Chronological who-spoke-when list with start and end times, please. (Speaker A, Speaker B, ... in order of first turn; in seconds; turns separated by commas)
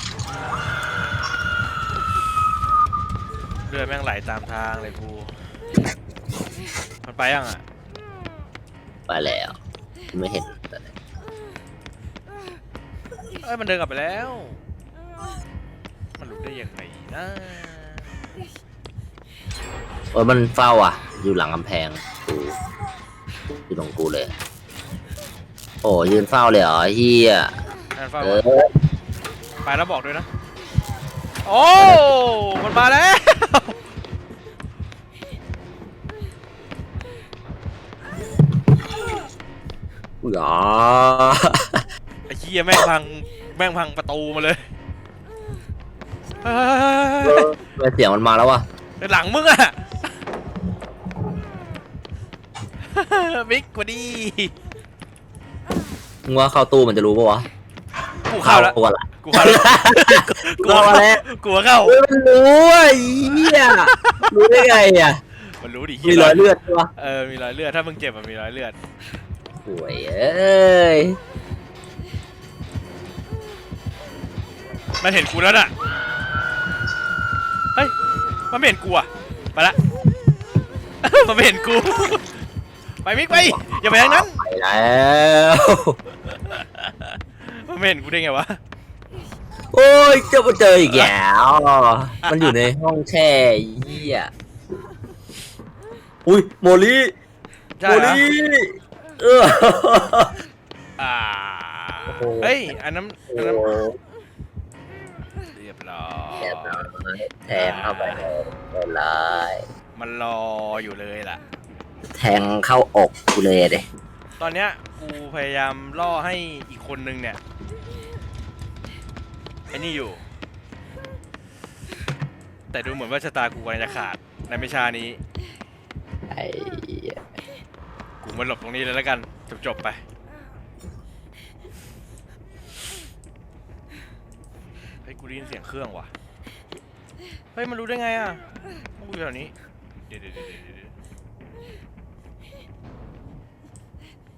Speaker A: 3.7-5.7, Speaker A: 7.0-7.6, Speaker B: 9.1-9.6, Speaker B: 10.1-10.9, Speaker A: 13.4-14.6, Speaker A: 16.2-18.1, Speaker B: 20.1-22.6, Speaker B: 23.5-24.3, Speaker B: 25.8-27.5, Speaker A: 27.9-28.4, Speaker B: 28.2-28.7, Speaker A: 29.6-30.3, Speaker A: 31.4-33.8, Speaker B: 31.8-32.0, Speaker B: 40.2-41.8, Speaker A: 42.3-44.7, Speaker A: 46.4-47.5, Speaker B: 47.2-48.6, Speaker A: 49.0-50.1, Speaker A: 52.8-54.5, Speaker B: 56.3-57.5, Speaker A: 58.3-62.0, Speaker B: 58.4-61.2, Speaker B: 61.9-65.2, Speaker A: 63.2-64.6, Speaker A: 65.4-68.8, Speaker B: 66.0-66.9, Speaker B: 69.7-71.2, Speaker A: 75.0-75.7, Speaker A: 78.5-79.8, Speaker A: 81.0-82.4, Speaker A: 83.0-84.4, Speaker B: 83.3-86.0, Speaker A: 86.3-88.6, Speaker B: 89.7-94.3, Speaker A: 90.8-91.1, Speaker A: 92.2-92.6, Speaker B: 96.2-97.1, Speaker A: 97.8-98.2, Speaker B: 97.8-100.3, Speaker A: 101.0-103.7, Speaker B: 102.1-102.7, Speaker B: 103.3-104.0, Speaker A: 105.5-106.9, Speaker B: 106.4-109.7, Speaker A: 107.5-108.3, Speaker A: 110.0-111.4, Speaker B: 112.1-113.9, Speaker A: 114.4-117.4, Speaker A: 119.7-120.3, Speaker A: 122.7-125.2, Speaker B: 126.3-127.2, Speaker A: 128.2-130.0, Speaker A: 135.1-136.1, Speaker A: 137.6-138.5, Speaker A: 139.0-139.5, Speaker A: 140.1-140.9